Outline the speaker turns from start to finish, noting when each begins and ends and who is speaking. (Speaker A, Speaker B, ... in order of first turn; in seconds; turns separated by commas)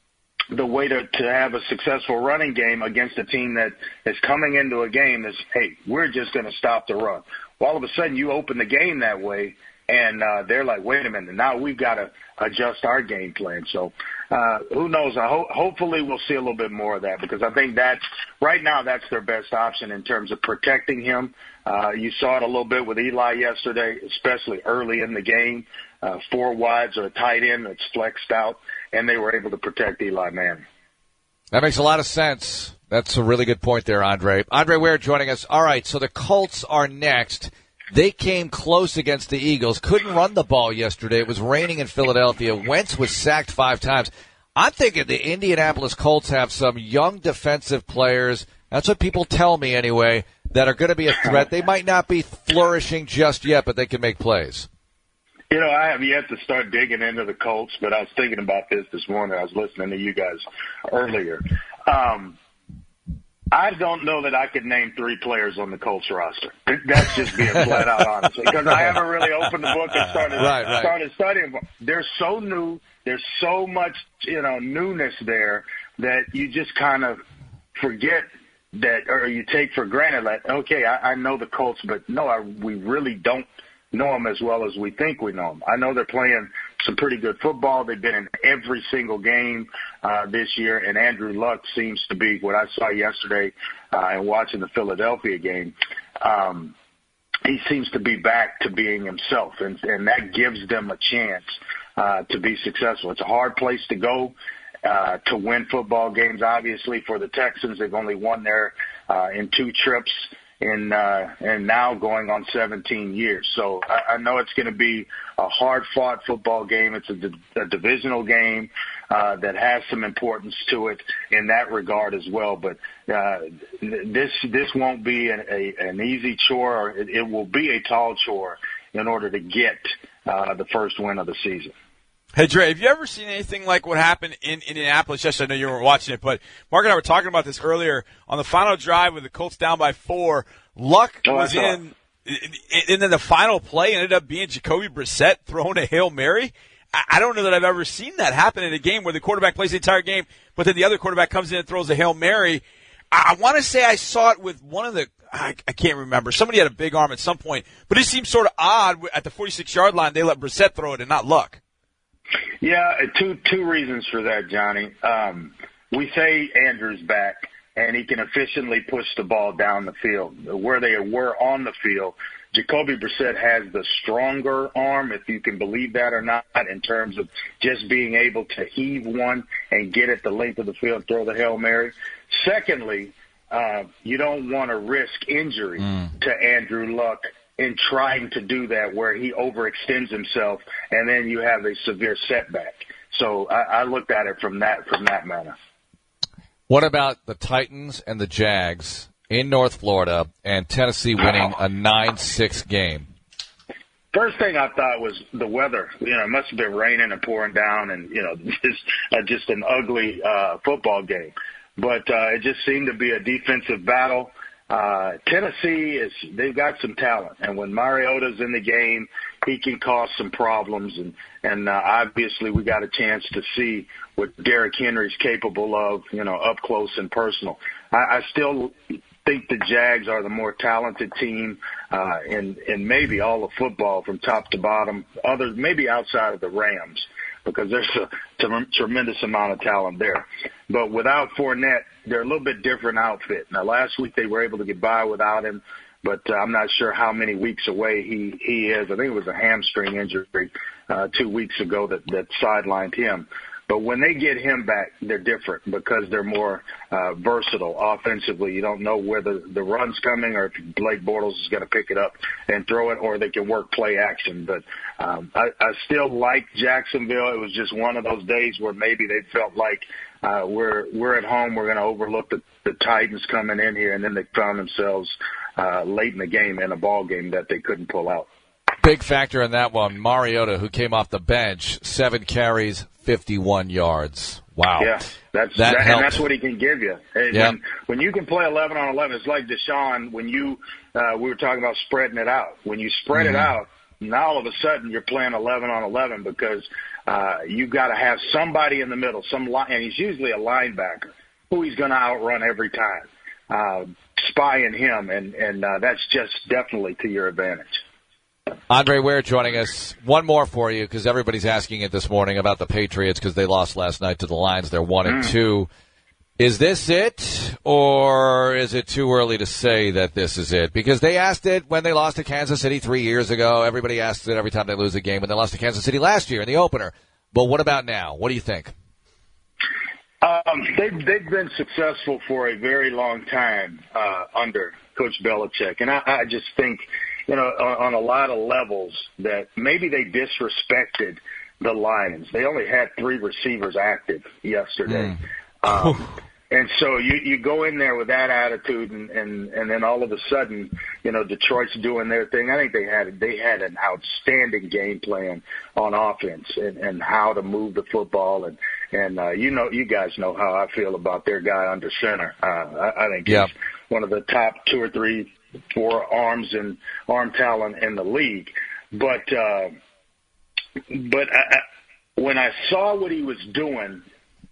Speaker A: 0.5-30.6, Speaker B: 31.5-54.7, Speaker A: 55.5-62.4, Speaker A: 63.5-77.2, Speaker B: 70.3-70.9, Speaker A: 77.7-96.7, Speaker A: 97.4-131.7, Speaker C: 132.3-161.6, Speaker A: 141.2-141.8, Speaker A: 162.6-195.6, Speaker B: 196.7-203.1, Speaker A: 204.1-278.3, Speaker B: 278.8-284.9, Speaker A: 284.8-307.8, Speaker B: 285.6-286.2, Speaker B: 293.1-293.5, Speaker B: 308.7-315.7, Speaker A: 315.1-315.3, Speaker B: 316.4-328.7, Speaker A: 330.2-369.8, Speaker B: 344.9-345.1, Speaker A: 370.9-371.6, Speaker A: 372.2-374.1